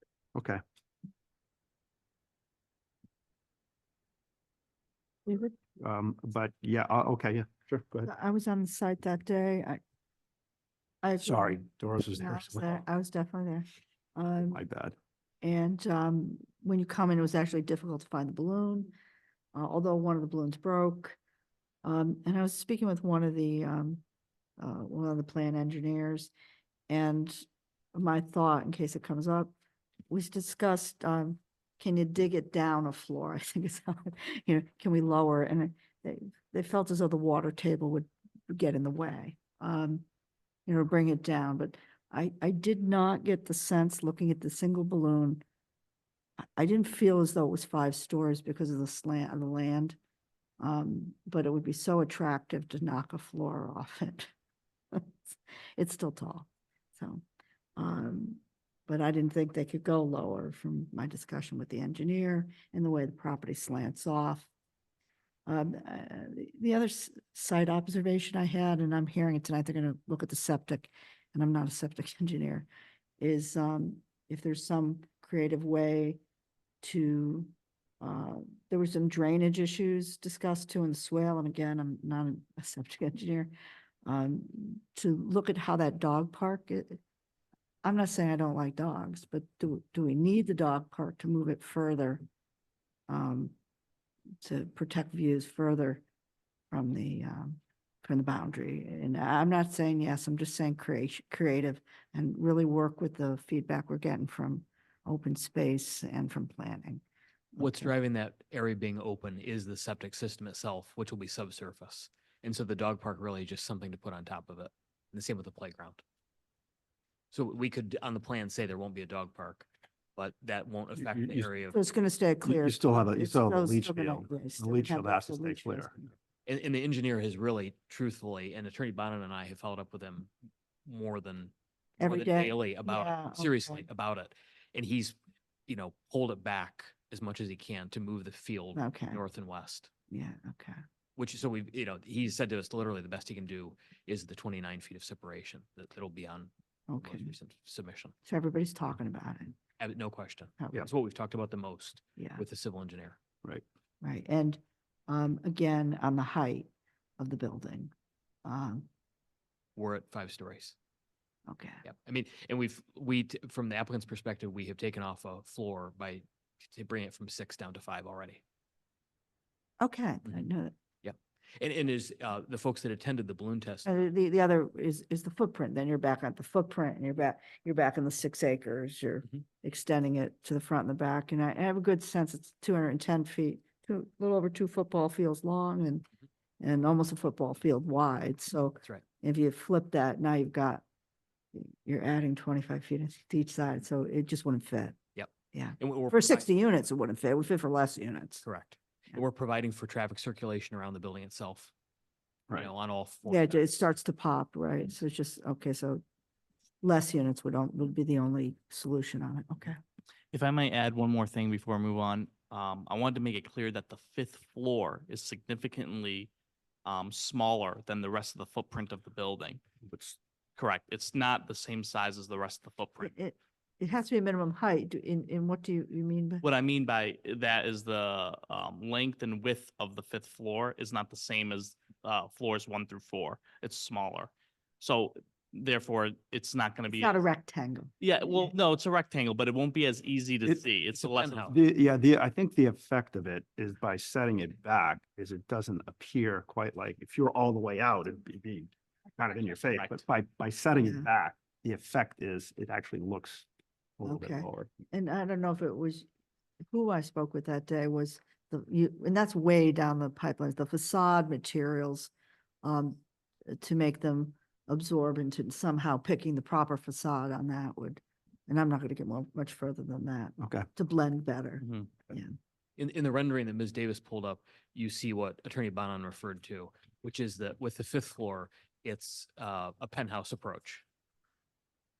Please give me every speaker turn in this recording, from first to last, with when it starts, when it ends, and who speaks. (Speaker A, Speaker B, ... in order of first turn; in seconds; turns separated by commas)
Speaker A: 0.3-0.6, Speaker B: 5.2-5.5, Speaker A: 5.8-8.1, Speaker B: 8.1-9.8, Speaker B: 11.0-14.6, Speaker A: 11.2-12.8, Speaker A: 14.5-14.9, Speaker B: 15.4-18.9, Speaker B: 19.5-21.2, Speaker B: 21.8-24.0, Speaker B: 24.6-26.3, Speaker B: 26.9-29.5, Speaker B: 30.1-40.0, Speaker B: 40.6-45.4, Speaker B: 46.5-50.0, Speaker B: 50.6-54.3, Speaker B: 55.8-57.2, Speaker B: 57.8-64.5, Speaker B: 65.5-72.7, Speaker B: 73.2-76.2, Speaker B: 76.8-83.5, Speaker B: 84.0-87.0, Speaker B: 87.8-92.2, Speaker B: 93.1-93.5, Speaker B: 94.4-96.0, Speaker B: 96.7-107.0, Speaker B: 107.5-107.9, Speaker C: 107.6-116.0, Speaker C: 117.3-121.8, Speaker A: 121.0-121.5, Speaker B: 121.7-126.1, Speaker A: 122.4-125.9, Speaker C: 126.5-130.3, Speaker C: 130.8-135.1, Speaker B: 132.0-133.8, Speaker C: 135.7-139.9, Speaker B: 138.7-139.2, Speaker B: 140.1-140.8, Speaker C: 141.2-148.1, Speaker B: 146.9-147.3, Speaker B: 148.2-149.6, Speaker C: 149.8-153.2, Speaker B: 150.6-150.8, Speaker B: 152.2-152.4, Speaker B: 154.0-157.9, Speaker B: 158.4-158.9, Speaker C: 159.8-160.7, Speaker B: 161.5-161.8, Speaker C: 161.8-168.4, Speaker B: 169.8-170.7, Speaker C: 171.0-174.1, Speaker B: 173.8-186.0, Speaker B: 186.6-190.8, Speaker B: 191.5-194.9, Speaker C: 195.2-196.4, Speaker B: 195.5-198.4, Speaker C: 198.4-201.7, Speaker C: 202.5-203.8, Speaker B: 203.3-206.0, Speaker B: 206.8-209.8, Speaker D: 210.3-216.3, Speaker D: 216.8-219.6, Speaker A: 219.8-220.2, Speaker D: 220.6-223.1, Speaker B: 223.0-226.4, Speaker D: 226.4-237.1, Speaker B: 236.9-238.5, Speaker D: 238.0-241.6, Speaker C: 240.9-241.6, Speaker A: 241.5-253.5, Speaker C: 249.8-250.0, Speaker B: 250.8-251.1, Speaker A: 254.0-254.7, Speaker B: 254.0-256.1, Speaker B: 256.7-262.1, Speaker B: 262.6-272.3, Speaker A: 270.4-270.6, Speaker D: 271.6-271.9, Speaker C: 272.8-280.8